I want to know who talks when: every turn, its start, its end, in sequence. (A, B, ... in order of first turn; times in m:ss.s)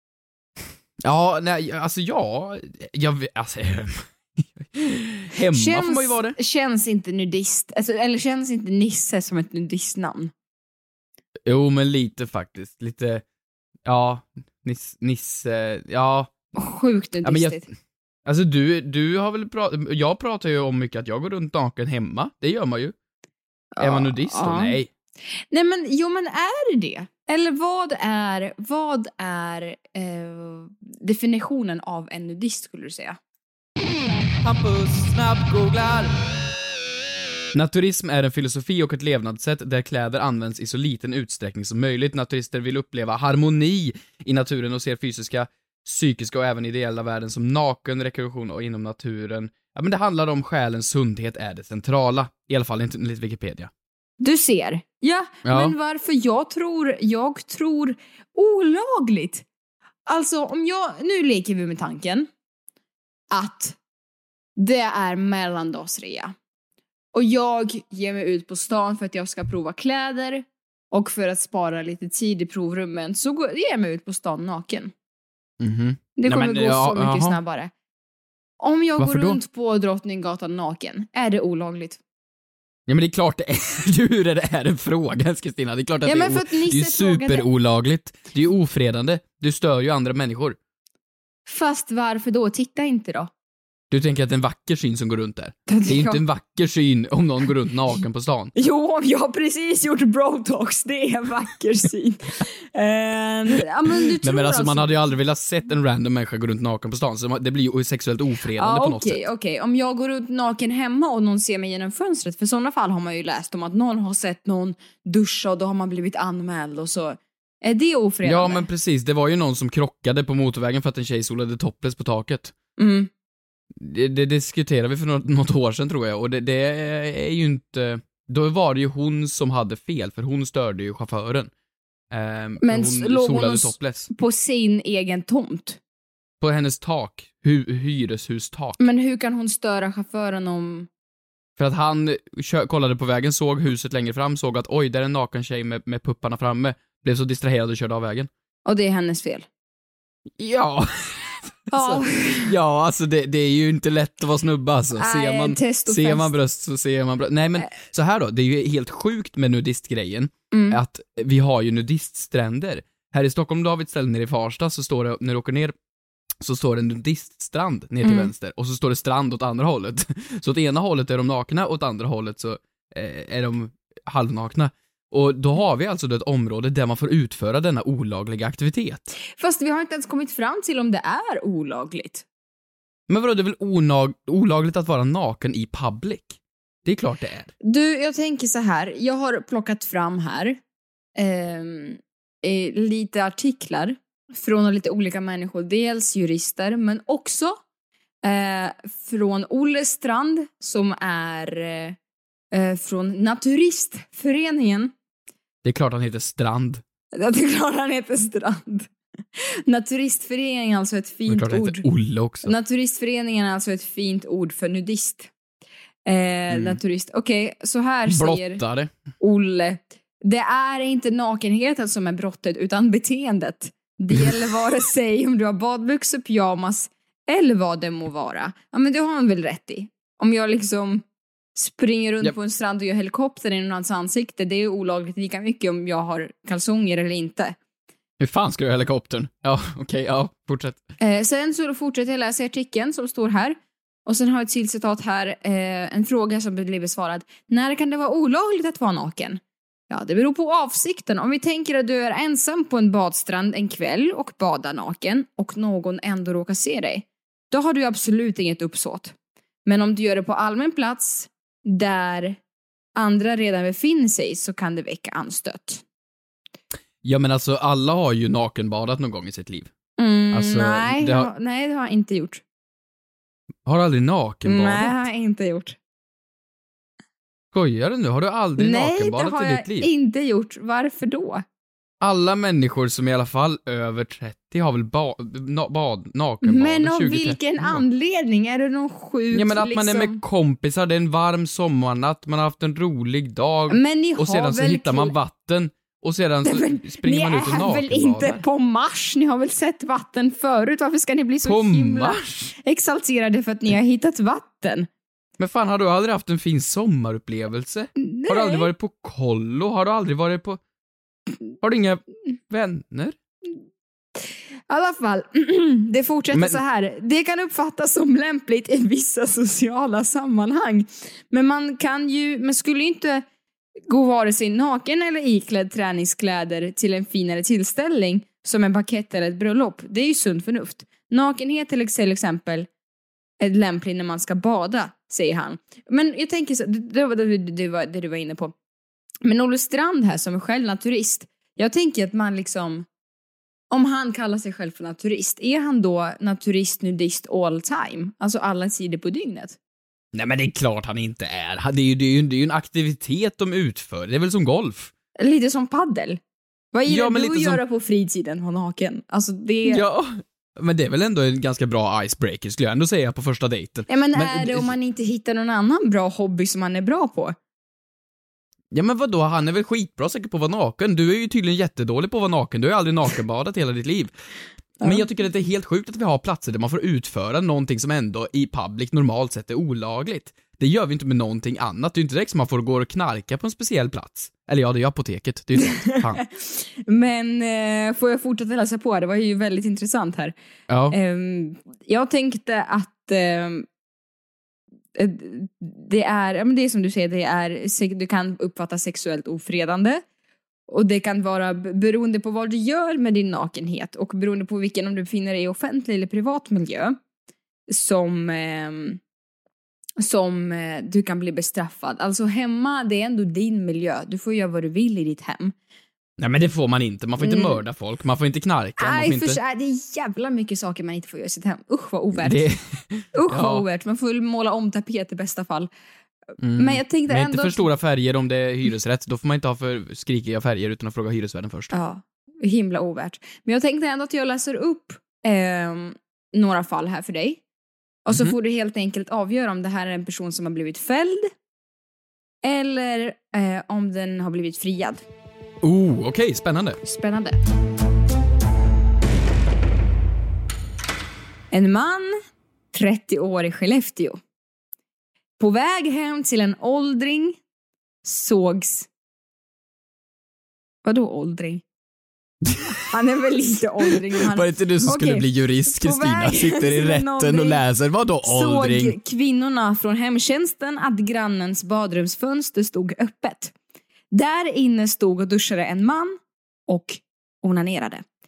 0:01.0-0:06.4 A
0:05.5-0:10.3 B
0:11.4-0:13.2 A
0:13.9-0:16.3 A
0:16.5-0:17.6 B
0:17.2-0:17.7 A
0:18.2-0:22.9 A
0:23.7-0:24.8 B
0:23.8-0:24.9 A
0:25.5-0:33.2 B
0:34.4-0:36.1 A
0:37.5-0:53.7 A
0:54.2-0:59.4 B
0:55.4-0:55.8 A
1:00.1-1:02.3 B
1:03.3-1:03.8 B
1:04.6-1:06.3 B
1:07.1-1:14.9 B
1:15.6-1:17.4 A
1:16.2-1:17.7 B
1:18.6-1:22.0 B
1:19.0-1:19.4 A
1:22.9-1:30.6 A
1:26.0-1:27.4 B
1:31.5-1:33.3 B
1:33.9-1:38.5 A
1:35.7-1:36.2 B
1:38.6-1:45.0 B
1:44.2-1:49.2 A
1:48.6-1:58.6 B
1:58.2-2:02.5 A
2:02.8-2:03.1 B
2:03.7-2:11.5 A
2:12.1-2:14.1 A
2:12.6-2:15.8 B
2:16.4-2:18.8 A
2:18.8-2:20.9 B
2:21.6-2:28.3 A
2:28.6-2:29.4 B
2:30.4-2:45.8 A
2:31.7-2:32.5 B
2:34.9-2:36.3 B
2:40.5-2:40.8 B
2:46.4-2:59.1 A
2:48.0-2:48.3 B
2:59.4-3:02.2 B
3:03.1-3:07.5 A
3:07.6-3:10.6 B
3:11.2-3:17.6 B
3:18.2-3:22.0 B
3:22.5-3:24.9 B
3:25.6-3:26.8 A
3:27.1-3:31.8 B
3:31.3-3:32.5 A
3:32.4-3:35.3 B
3:36.0-3:38.6 B
3:36.5-3:36.8 A
3:38.1-3:38.9 A
3:39.2-3:51.0 B
3:51.5-3:57.6 B
3:58.2-4:00.8 A
4:01.0-4:22.4 B
4:23.0-4:25.8 B
4:27.0-4:29.7 A
4:30.0-4:32.4 B
4:30.3-4:31.3 A
4:33.6-4:34.9 A
4:34.4-4:35.8 B
4:37.5-4:39.9 A
4:38.6-4:41.4 B
4:42.0-4:47.8 A
4:46.4-4:50.2 B
4:49.3-4:58.4 A
4:53.7-4:55.1 B
4:56.4-5:04.9 B
5:01.4-5:02.6 A
5:05.4-5:10.6 A
5:08.0-5:08.7 B
5:11.6-5:13.2 A
5:14.2-5:23.2 B
5:16.3-5:16.6 A
5:23.9-5:32.7 B
5:33.4-5:38.5 B
5:39.2-5:42.9 B
5:43.7-5:49.6 B
5:50.1-5:54.9 A
5:55.2-5:56.2 B
5:56.7-5:59.8 B
5:56.9-5:57.6 A
5:59.7-6:04.7 A
6:03.9-6:07.4 B
6:08.7-6:14.1 A
6:14.8-6:26.2 A
6:25.6-6:30.3 B
6:30.7-6:31.0 A
6:30.9-6:33.6 B
6:35.0-6:40.0 B
6:40.7-6:47.0 B
6:47.7-6:49.0 B
6:50.0-6:55.6 B
6:56.2-6:59.4 A
6:57.2-6:57.6 B
6:58.8-7:02.5 B
7:02.2-7:03.6 A
7:03.1-7:05.7 B
7:06.4-7:11.7 A
7:06.6-7:07.7 B
7:11.7-7:17.4 B
7:18.1-7:21.3 B
7:22.4-7:25.0 B
7:25.6-7:26.8 A
7:26.8-7:27.4 B
7:31.5-7:32.1 B
7:32.7-7:34.2 B
7:35.4-7:37.4 B
7:38.0-7:38.9 B
7:40.8-7:41.6 B
7:42.5-7:42.8 A
7:42.9-7:47.6 B
7:44.2-7:49.0 A
7:48.2-7:53.5 B
7:54.1-7:58.0 B